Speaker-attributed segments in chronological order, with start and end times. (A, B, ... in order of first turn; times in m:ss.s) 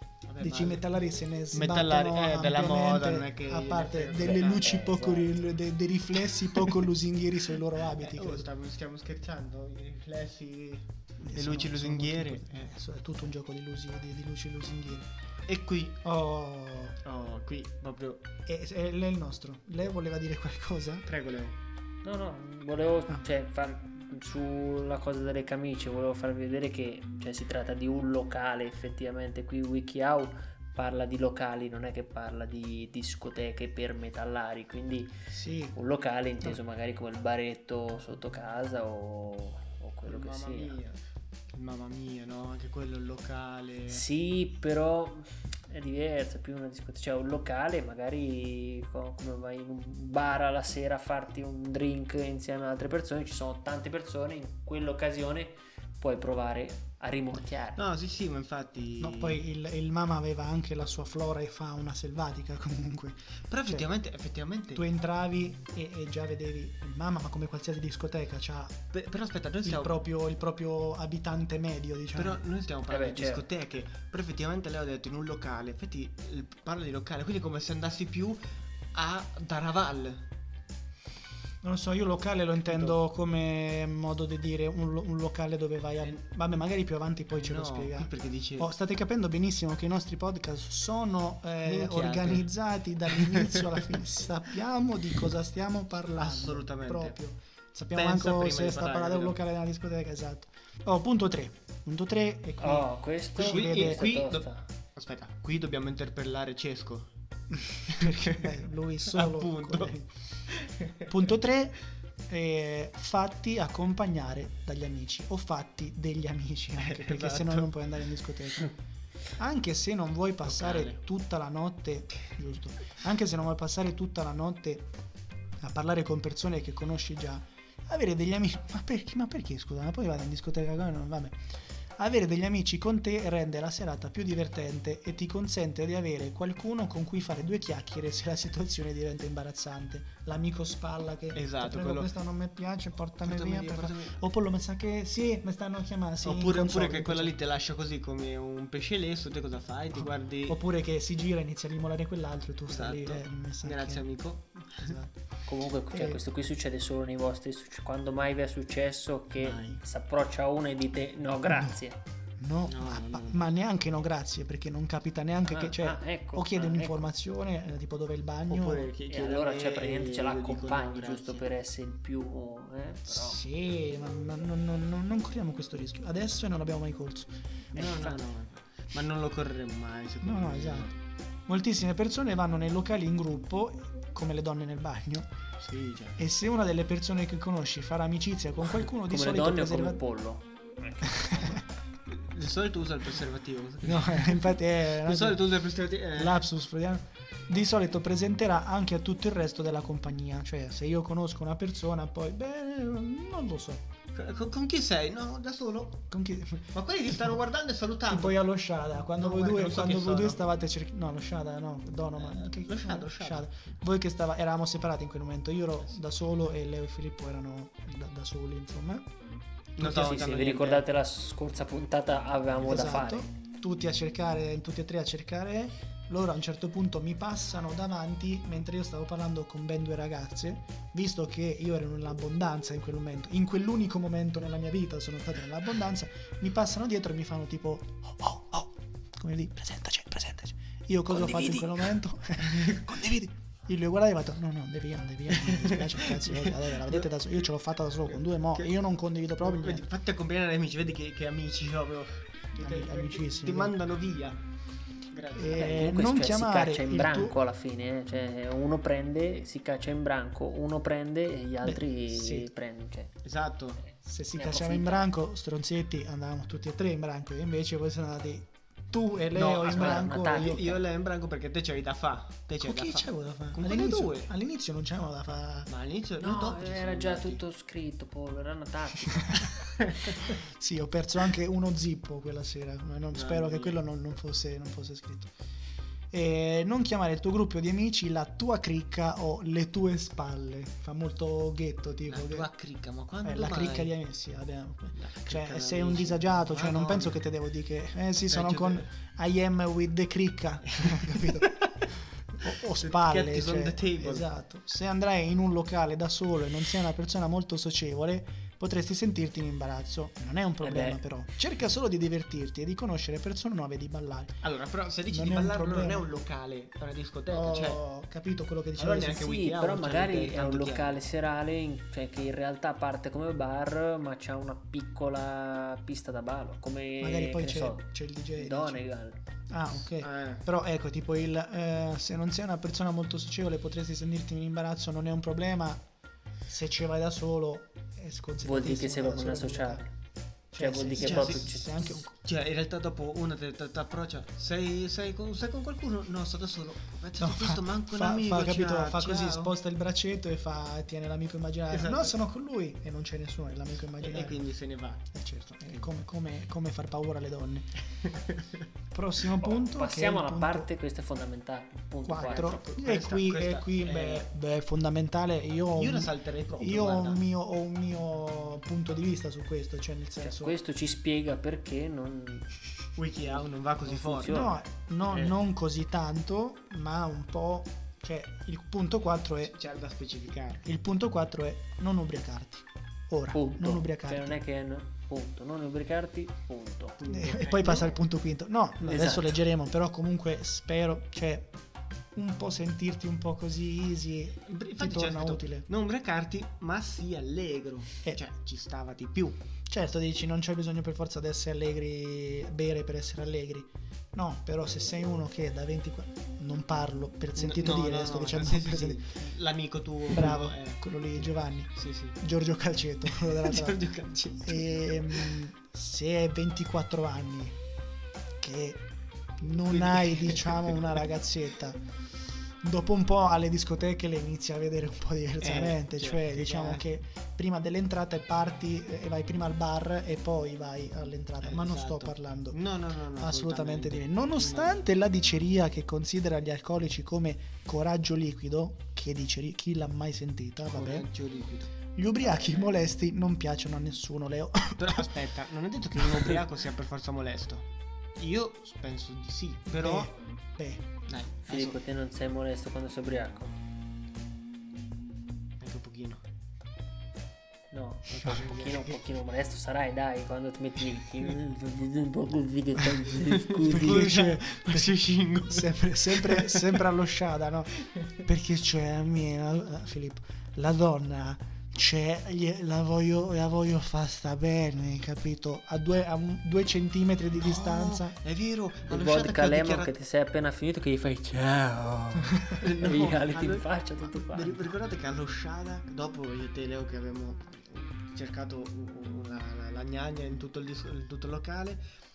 0:00.3-0:00.9 A
0:00.4-0:08.5 B
0:01.5-0:04.8 A
0:04.2-0:05.4 C
0:06.4-0:06.8 A
0:08.0-0:12.7 A
0:11.2-0:15.1 B
0:15.5-0:16.0 A
0:16.0-0:17.0 B
0:17.0-0:18.3 A
0:18.4-0:21.0 B
0:21.0-0:21.6 A
0:22.0-0:35.1 C
0:35.3-0:35.7 B
0:35.7-0:40.7 C
0:40.0-0:41.0 A
0:41.5-0:44.0 A
0:43.9-0:57.8 C
0:57.8-0:59.4 A
0:59.0-1:03.8 B
1:03.5-1:04.9 A
1:04.7-1:08.8 B
1:08.9-1:10.0 A
1:09.6-1:12.4 B
1:12.2-1:18.4 A
1:12.9-1:13.4 C
1:18.9-1:20.2 A
1:21.6-1:44.1 B
1:27.3-1:28.7 A
1:31.6-1:32.5 A
1:33.1-1:34.0 A
1:36.1-1:37.2 A
1:37.9-1:39.4 A
1:42.6-1:44.6 C
1:43.4-1:47.1 A
1:47.6-1:50.1 B
1:47.8-1:49.9 A
1:50.5-1:51.1 A
1:51.1-1:58.7 B
1:56.8-1:57.7 A
1:59.4-2:04.9 B
2:00.4-2:01.0 A
2:05.6-2:11.4 B
2:12.0-2:27.4 B
2:21.3-2:22.1 A
2:23.2-2:24.2 A
2:26.2-2:30.6 A
2:29.9-2:34.0 B
2:32.7-2:35.0 A
2:34.8-2:35.2 B
2:35.4-2:42.0 C
2:35.9-2:36.2 B
2:39.4-2:39.8 A
2:41.5-2:41.8 B
2:42.4-2:48.9 B
2:42.7-2:43.4 A
2:45.5-2:47.1 C
2:48.5-2:51.4 A
2:49.1-2:53.4 C
2:53.1-2:58.1 B
2:57.7-3:00.9 A
2:57.8-2:58.1 C
3:00.2-3:00.9 B
3:01.5-3:05.3 B
3:05.6-3:06.2 A
3:06.2-3:10.0 B
3:09.0-3:11.6 C
3:11.0-3:11.6 B
3:12.1-3:16.4 A
3:13.8-3:15.6 B
3:16.1-3:23.8 B
3:24.1-3:26.0 A
3:26.1-3:27.4 B
3:26.7-3:28.4 A
3:28.1-3:39.1 B
3:29.1-3:30.4 A
3:32.2-3:33.6 A
3:39.8-3:40.8 A
3:39.8-3:43.3 C
3:42.6-4:09.9 B
4:01.1-4:01.7 C
4:02.4-4:02.9 A
4:05.3-4:07.0 A
4:08.1-4:08.8 A
4:09.4-4:14.4 A
4:12.6-4:13.8 B
4:15.1-4:15.9 A
4:15.3-4:17.4 B
4:15.5-4:23.1 C
4:21.6-4:22.5 B
4:23.2-4:23.8 A
4:24.0-4:30.8 B
4:24.3-4:25.1 C
4:29.3-4:34.3 A
4:29.6-4:30.8 C
4:32.6-4:35.7 B
4:35.7-4:37.4 A
4:36.2-4:39.5 C
4:39.1-4:39.5 B
4:40.2-4:45.3 B
4:43.1-4:43.8 A
4:46.1-4:52.5 B
4:52.1-4:53.9 A
4:53.2-5:01.6 B
4:54.9-4:57.2 A
4:58.3-4:58.9 A
5:00.7-5:01.7 A
5:02.4-5:14.4 B
5:02.4-5:04.3 A
5:10.6-5:11.0 C
5:14.4-5:17.8 A
5:15.1-5:16.1 B
5:17.3-5:19.4 B
5:18.8-5:21.0 A
5:19.2-5:29.2 C
5:27.0-5:28.8 B
5:29.5-5:35.8 B
5:30.0-5:30.4 A
5:36.5-5:39.8 B
5:38.4-5:39.9 C
5:40.5-5:42.1 B
5:40.6-5:42.0 C
5:41.0-5:49.5 A
5:47.2-5:54.4 B
5:51.7-5:52.2 A
5:54.0-5:55.0 A
5:55.1-5:57.7 B
5:58.0-5:58.6 A
5:58.9-6:00.7 B
5:59.4-6:02.6 C
6:02.0-6:10.6 B
6:02.2-6:04.3 A
6:05.7-6:07.2 A
6:10.2-6:12.5 C
6:13.0-6:14.5 A
6:13.2-6:14.5 C
6:14.2-6:19.5 B
6:15.0-6:15.3 A
6:19.4-6:20.6 A
6:20.6-6:24.4 B
6:23.3-6:27.0 C
6:27.0-6:28.0 A
6:27.1-6:31.5 B
6:28.8-6:29.4 C
6:32.1-6:35.6 B
6:34.5-6:39.4 A
6:39.7-6:49.2 B
6:47.4-6:52.2 A
6:50.1-6:53.9 B
6:53.0-6:55.4 A
6:54.4-6:57.6 B
6:58.4-6:58.9 B
6:59.4-7:01.8 B
6:59.7-7:01.0 A
7:02.6-7:12.6 B
7:05.4-7:06.9 A
7:11.4-7:14.8 A
7:13.2-7:21.1 B
7:20.6-7:22.8 A
7:21.9-7:25.2 B
7:24.8-7:27.6 A
7:26.0-7:26.3 B
7:28.2-7:30.1 A
7:29.7-7:30.9 B
7:31.1-7:31.8 A
7:31.4-7:33.6 C
7:35.6-7:36.2 A
7:37.7-7:44.2 C
7:38.1-7:38.9 A
7:38.2-7:38.8 B
7:43.3-7:46.8 A
7:43.6-7:58.1 B
7:57.3-7:59.9 A
7:58.8-8:04.6 C
8:02.5-8:11.8 A